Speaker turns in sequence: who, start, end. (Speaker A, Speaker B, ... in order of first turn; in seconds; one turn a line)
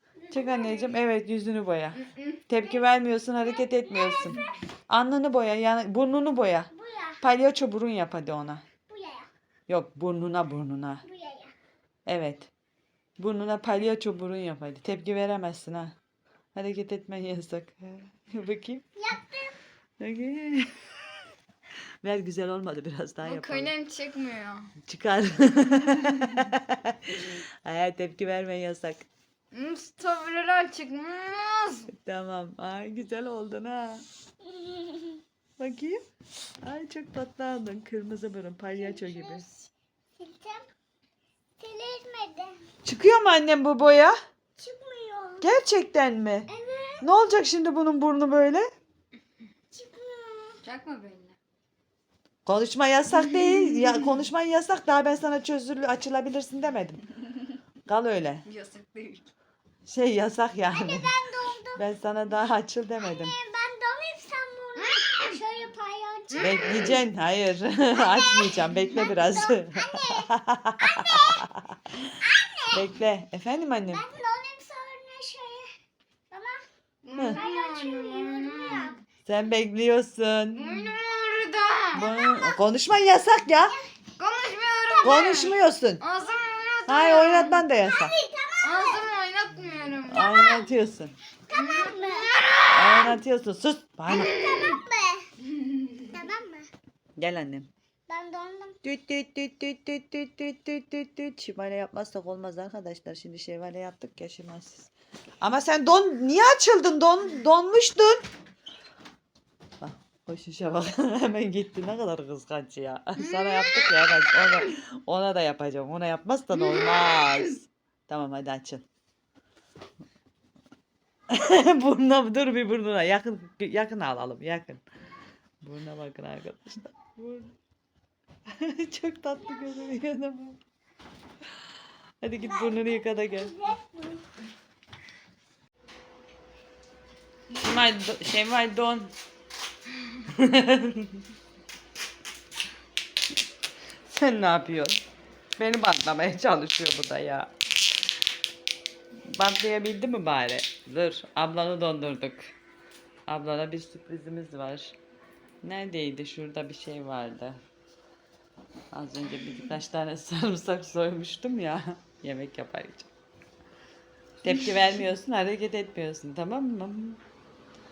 Speaker A: 0.2-0.9
Speaker B: 0.3-6.7
Speaker C: 2.0-2.4
Speaker A: 2.6-4.6
Speaker A: 6.7-7.2
Speaker B: 7.2-8.6
Speaker A: 8.9-9.3
Speaker B: 9.7-11.0
Speaker A: 11.0-11.5
Speaker B: 12.1-12.5
Speaker B: 13.2-15.9
Speaker B: 16.5-18.8
Speaker A: 18.9-19.6
Speaker B: 20.0-20.9
Speaker B: 22.0-23.7
Speaker C: 23.2-24.7
Speaker B: 24.8-29.1
Speaker C: 29.5-31.9
Speaker B: 31.9-34.0
Speaker A: 34.4-35.2
Speaker B: 35.6-36.0
Speaker B: 36.6-39.4
Speaker A: 40.2-40.7
Speaker A: 41.6-42.6
Speaker B: 42.8-44.1
Speaker A: 44.6-45.5
Speaker B: 45.4-46.5
Speaker A: 46.5-47.1
Speaker B: 47.0-48.7
Speaker A: 49.7-50.6
Speaker C: 50.6-51.4
Speaker B: 52.5-57.0
Speaker B: 57.9-58.4
Speaker C: 58.5-59.3
Speaker B: 59.9-61.2
Speaker A: 60.6-61.8
Speaker B: 61.8-63.3
Speaker A: 63.0-67.0
Speaker B: 66.4-72.2
Speaker A: 67.9-71.4
Speaker A: 72.2-72.9
Speaker B: 72.7-74.0
Speaker A: 73.9-75.7
Speaker A: 76.3-76.6
Speaker C: 77.0-79.0
Speaker A: 77.2-79.0
Speaker B: 79.2-80.9
Speaker C: 80.5-82.0
Speaker B: 81.9-83.8
Speaker A: 81.9-82.6
Speaker C: 84.2-87.6
Speaker B: 85.0-86.0
Speaker B: 86.9-88.1
Speaker A: 87.8-89.2
Speaker C: 88.6-90.3
Speaker B: 90.0-91.1
Speaker A: 90.1-90.7
Speaker A: 91.5-93.1
Speaker C: 91.5-92.7
Speaker B: 92.7-94.5
Speaker A: 94.1-95.2
Speaker C: 94.2-94.8
Speaker A: 96.1-96.7
Speaker B: 97.2-97.7
Speaker A: 98.1-98.8
Speaker B: 98.8-104.9
Speaker B: 105.4-108.2
Speaker B: 109.8-118.8
Speaker C: 113.2-114.6
Speaker C: 116.6-117.5
Speaker B: 121.3-124.8
Speaker B: 125.6-127.5
Speaker B: 128.5-130.6
Speaker B: 132.2-133.5
Speaker A: 132.4-134.2
Speaker B: 137.5-139.1
Speaker B: 140.3-141.2
Speaker B: 144.1-145.0
Speaker B: 145.6-147.5
Speaker B: 149.3-152.5
Speaker B: 153.3-155.0
Speaker B: 155.6-157.6
Speaker B: 158.9-163.1
Speaker B: 164.4-167.2